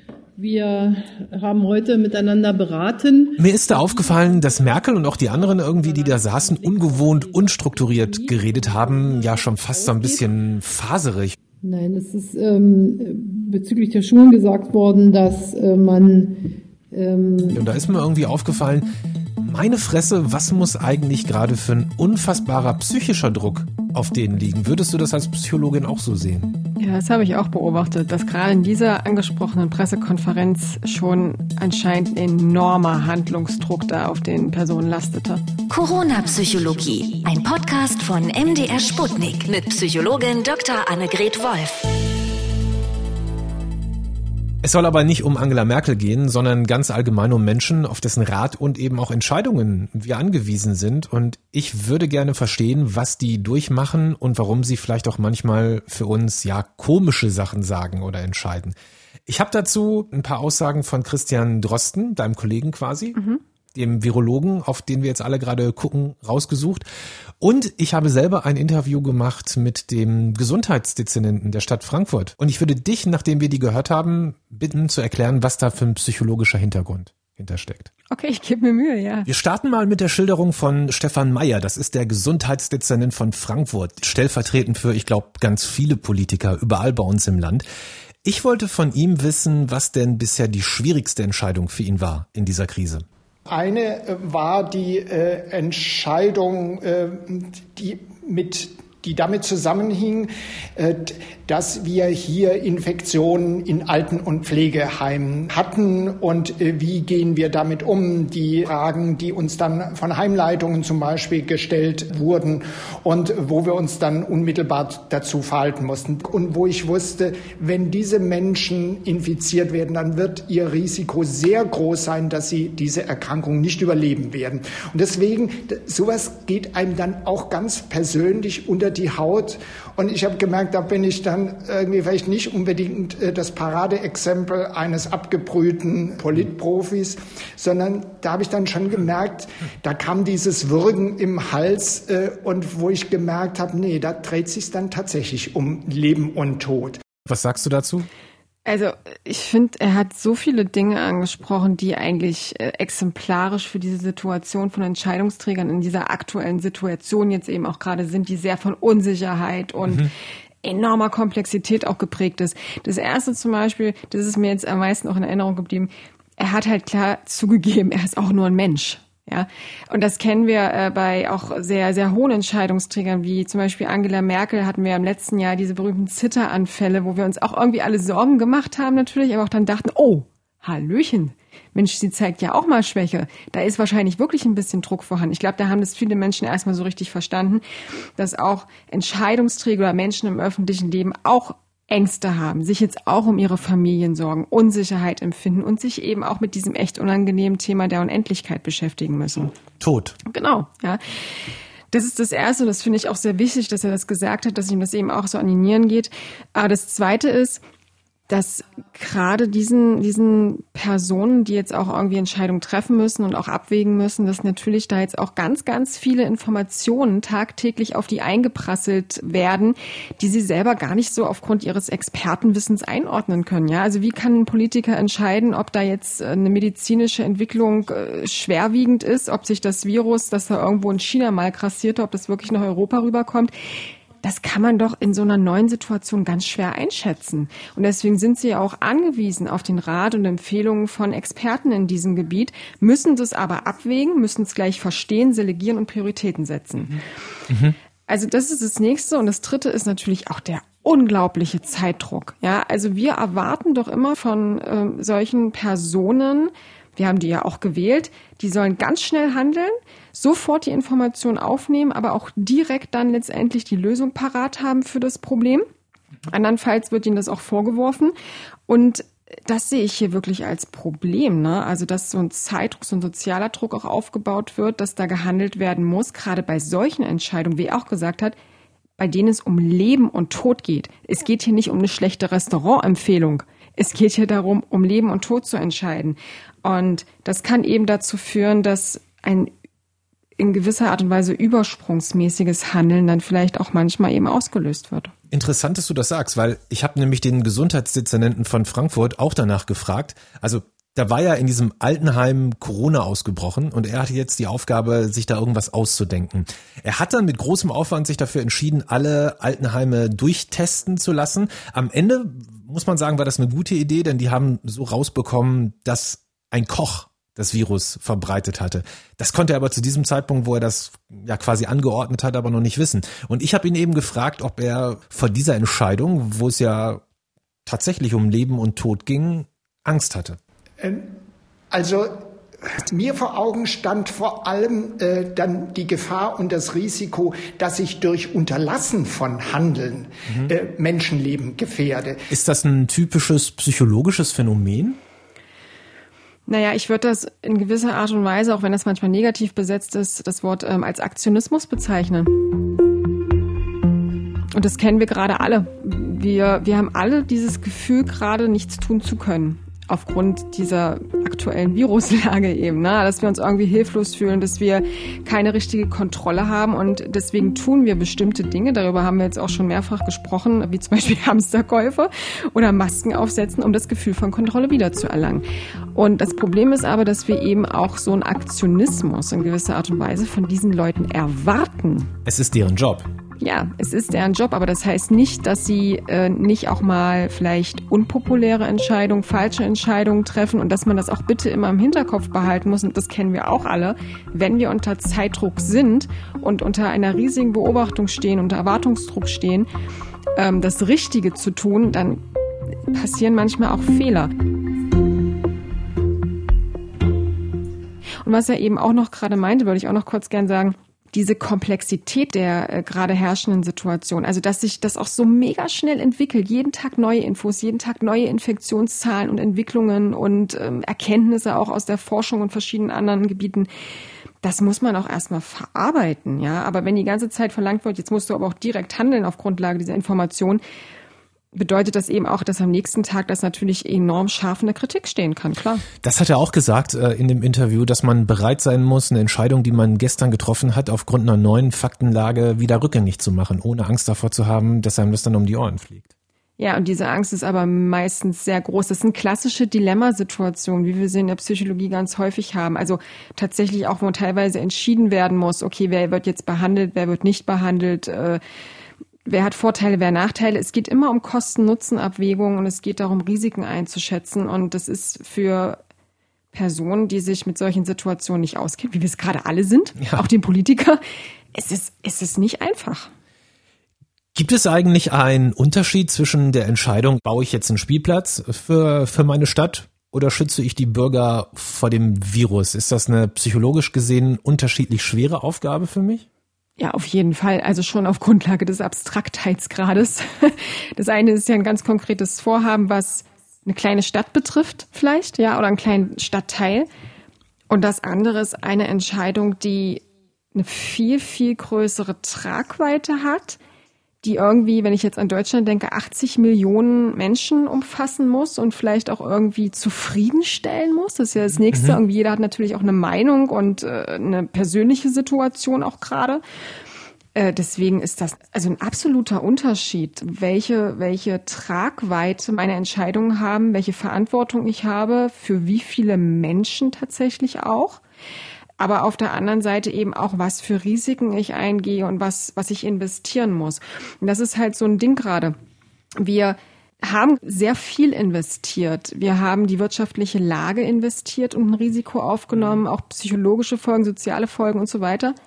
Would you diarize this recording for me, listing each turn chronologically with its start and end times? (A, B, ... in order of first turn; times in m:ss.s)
0:00.4-0:10.3 A
0:03.4-0:11.4 B
0:11.6-0:17.6 A
0:17.5-0:26.5 B
0:26.8-0:35.4 C
0:35.7-0:41.9 D
0:44.6-0:58.7 B
0:59.3-1:03.2 B
1:03.2-1:03.4 C
1:03.7-1:06.8 B
1:07.4-1:17.9 B
1:18.1-1:19.3 C
1:19.2-1:27.6 B
1:28.2-1:33.0 B
1:33.5-2:27.0 E
2:27.2-2:28.1 B
2:28.6-2:40.1 C
2:40.6-3:07.6 C
3:08.2-3:19.6 C
3:19.8-3:20.2 B
3:20.2-3:21.0 C
3:21.9-3:27.6 C
3:28.3-3:53.5 C
3:54.2-4:07.0 C
4:07.5-4:07.8 B
4:08.1-4:25.6 C
4:26.3-4:28.1 C
4:28.7-4:38.3 C
4:39.0-4:49.5 C
4:50.4-4:55.1 C
4:55.3-5:27.0 B
5:27.6-5:30.4 B
5:30.8-5:31.2 E
5:31.7-5:42.2 E
5:42.3-5:45.0 B
5:46.5-5:52.4 C
5:54.5-6:22.1 C
6:22.2-6:23.1 B
6:23.4-6:39.7 C
6:40.4-6:42.2 C
6:42.9-6:44.3 C
6:48.2-7:03.7 C
7:04.4-7:10.6 C
7:11.5-7:15.8 C
7:16.0-7:26.1 B
7:26.6-7:38.4 C
7:39.2-7:45.8 C
7:46.5-7:51.0 C
7:51.5-7:53.1 C
7:54.3-8:06.2 B
8:06.8-8:16.9 C
8:17.7-8:23.6 C
8:24.2-8:36.4 C
8:31.7-8:32.0 B
8:37.3-8:48.0 C
8:48.8-8:55.5 C
8:56.2-9:05.4 C